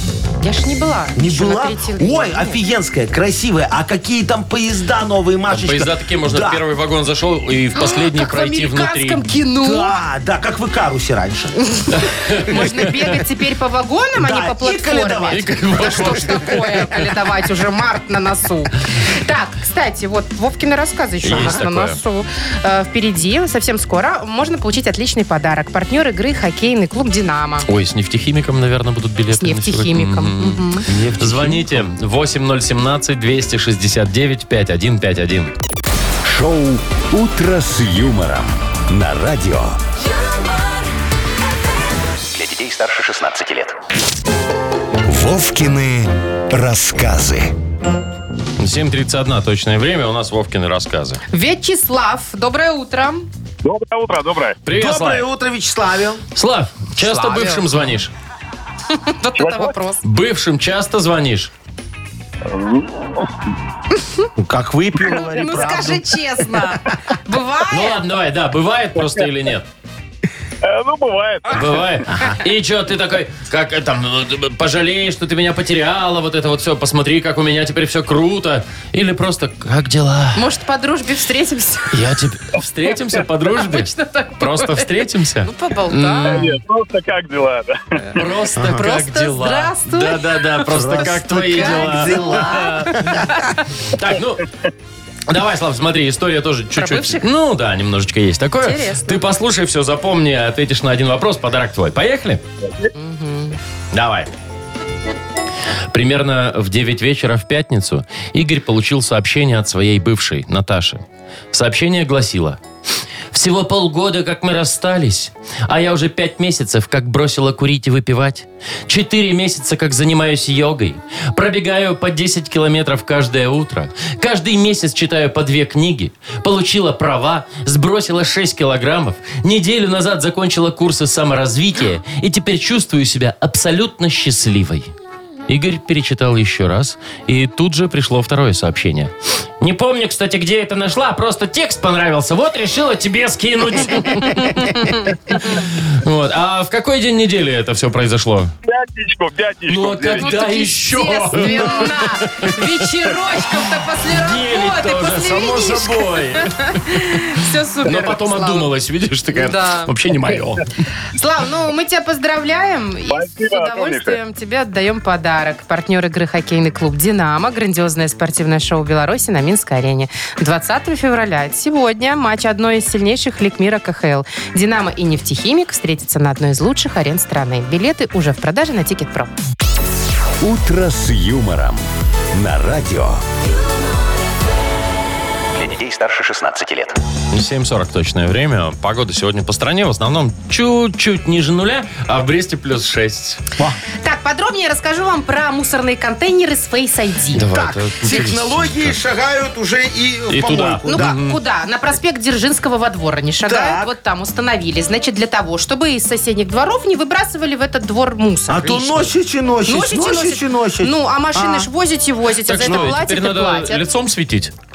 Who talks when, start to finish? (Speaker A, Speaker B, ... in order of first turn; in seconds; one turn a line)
Speaker A: 0.4-2.6
Speaker B: 1.2-6.6
Speaker C: 5.5-9.3
Speaker A: 7.8-10.0
Speaker B: 9.6-11.7
Speaker A: 11.7-27.7
Speaker C: 11.9-12.5
Speaker B: 12.5-12.8
Speaker B: 14.2-16.2
Speaker C: 15.3-16.9
Speaker C: 21.2-22.0
Speaker B: 21.3-21.6
Speaker C: 27.7-35.5
Speaker A: 29.3-30.9
Speaker B: 30.9-31.8
Speaker D: 36.2-39.8
Speaker E: 42.3-43.8
Speaker D: 45.0-47.5
Speaker C: 48.6-51.2
Speaker A: 51.3-53.3
Speaker F: 53.6-54.6
Speaker C: 54.6-55.3
Speaker B: 54.7-56.2
Speaker C: 56.4-58.1
Speaker A: 57.0-57.8
Speaker A: 58.9-60.0
Speaker F: 59.4-59.7
Speaker C: 60.0-61.5
Speaker F: 62.5-63.3
Speaker A: 64.0-64.3
Speaker B: 64.4-66.7
Speaker A: 65.0-68.0
Speaker C: 67.7-69.7
Speaker F: 70.6-71.9
Speaker C: 71.5-80.4
Speaker A: 80.3-82.0
Speaker C: 81.9-86.5
Speaker A: 83.5-86.5
Speaker F: 86.3-88.0
Speaker C: 88.1-93.2
Speaker B: 88.6-88.8
Speaker A: 88.6-93.7
Speaker B: 90.7-93.3
Speaker C: 93.9-94.5
Speaker C: 95.3-102.4
Speaker A: 96.8-97.2
Speaker A: 98.6-99.2
Speaker A: 102.9-103.6
Speaker C: 103.9-104.3
Speaker C: 105.9-112.6
Speaker C: 113.3-134.9
Speaker C: 135.5-148.5
Speaker A: 144.3-145.5
Speaker F: 148.7-150.4
Speaker C: 149.7-152.6
Speaker A: 150.2-158.7
Speaker C: 154.1-160.7
Speaker A: 159.3-159.9
Speaker A: 161.2-179.3
Speaker F: 163.1-164.2
Speaker D: 180.4-183.2
Speaker E: 185.5-187.0
Speaker C: 187.3-193.4
Speaker A: 194.0-197.5
Speaker C: 197.3-199.0
Speaker B: 197.5-201.2
Speaker C: 200.3-201.4
Speaker A: 200.9-209.1
Speaker B: 203.5-203.9
Speaker B: 208.5-211.7
Speaker A: 209.7-213.8
Speaker C: 212.5-214.5
Speaker B: 212.7-213.0